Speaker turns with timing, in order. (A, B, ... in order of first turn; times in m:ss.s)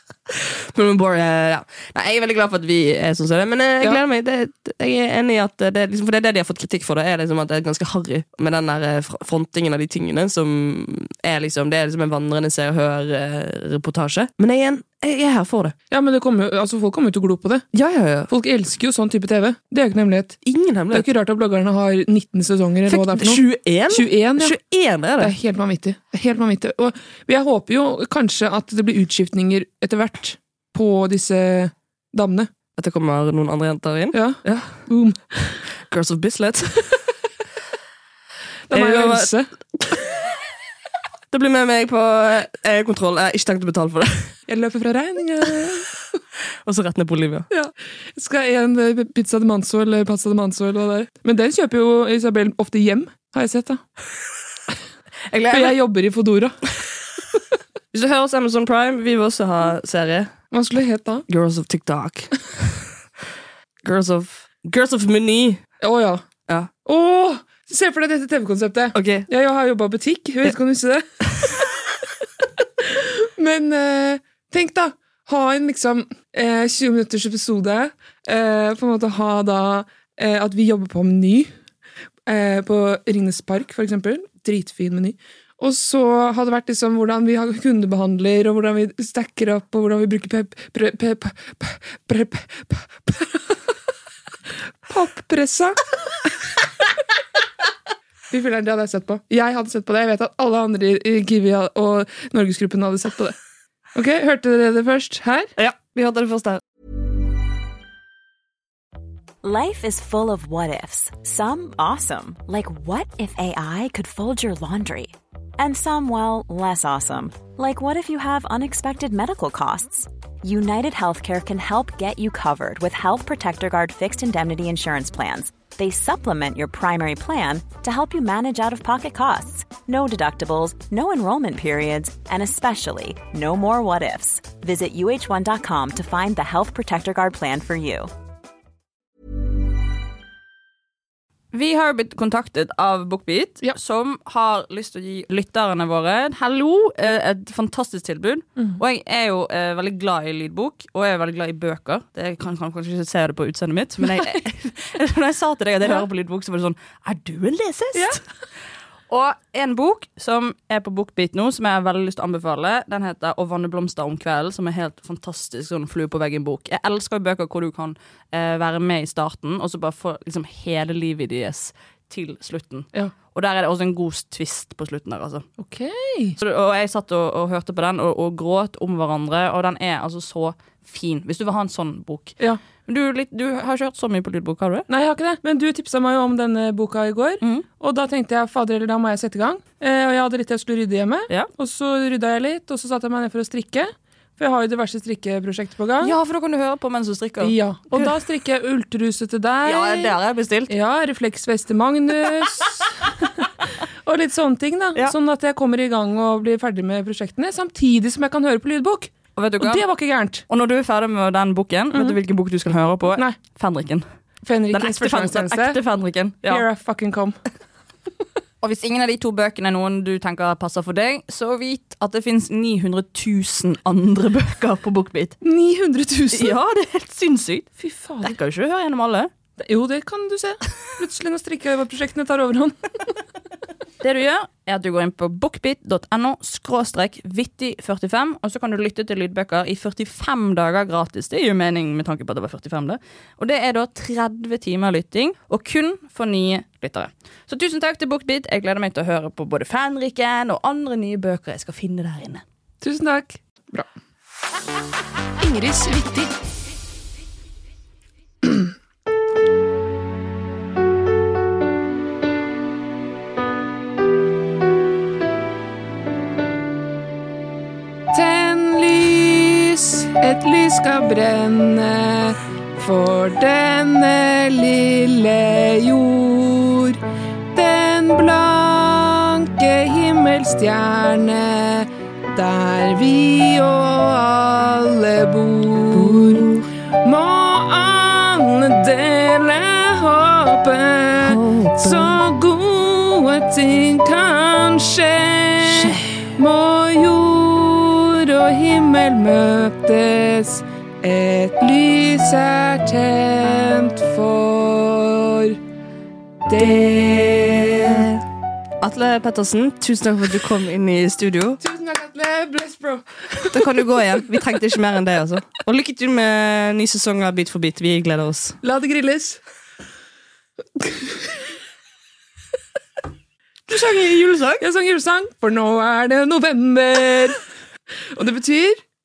0:00.7-0:15.8 A
0:15.9-0:17.6 B
0:17.7-0:18.3 A
0:18.3-0:20.4 B
0:20.4-0:21.1 A
0:20.9-0:24.6 B
0:22.9-0:25.3 A
0:25.2-0:32.5 B
0:32.8-0:34.8 A
0:34.1-0:35.4 B
0:35.9-0:36.8 A
0:38.7-0:39.5 B
0:38.7-0:39.3 A
0:41.3-0:44.3 A
0:44.5-0:45.9 B
0:46.7-0:47.5 A
0:47.5-0:53.8 B
0:55.3-0:55.8 A
0:55.5-0:56.6 B
0:57.9-1:00.3 A
1:00.5-1:01.2 B
1:01.3-1:02.4 A
1:03.8-1:05.6 A
1:05.8-1:06.2 B
1:06.8-1:11.1 B
1:09.0-1:09.3 A
1:12.8-1:21.5 B
1:22.3-1:33.4 B
1:34.9-1:35.8 B
1:38.3-1:43.4 B
1:44.0-1:45.5 B
1:45.6-1:46.6 A
1:49.4-2:18.1 C
2:21.5-2:38.2 D
2:39.1-2:55.5 D
2:55.6-2:56.4 B
2:56.4-3:04.9 D
3:04.9-3:16.2 B
3:07.4-3:07.7 D
3:16.0-3:18.1 D
3:17.4-3:20.2 B
3:19.6-3:20.7 D
3:20.7-3:23.3 B
3:24.1-3:30.4 B
3:29.4-3:29.9 D
3:30.5-3:34.0 D
3:31.9-3:32.2 B
3:33.1-3:33.4 B
3:34.4-3:35.8 B
3:34.7-3:36.7 D
3:36.4-3:37.4 B
3:38.6-3:45.4 D
3:45.4-3:46.6 B
3:46.3-3:47.7 D
3:47.8-3:48.4 B
3:48.2-3:49.3 D
3:49.6-3:52.8 B
3:54.0-4:12.4 D
4:12.8-4:13.9 B
4:15.4-4:16.3 B
4:18.4-4:18.7 B
4:28.1-4:37.0 B
4:37.5-4:46.5 B
4:45.9-4:46.7 A
4:47.0-5:05.6 B
4:51.2-4:52.2 A
4:55.6-4:56.0 A
5:06.5-5:08.1 B
5:07.6-5:08.2 A
5:08.8-5:11.6 A
5:11.6-5:13.7 B
5:13.5-5:18.6 A
5:18.6-5:19.4 B
5:20.8-5:21.2 B
5:23.7-5:24.6 A
5:24.6-5:27.4 B
5:28.2-5:28.8 B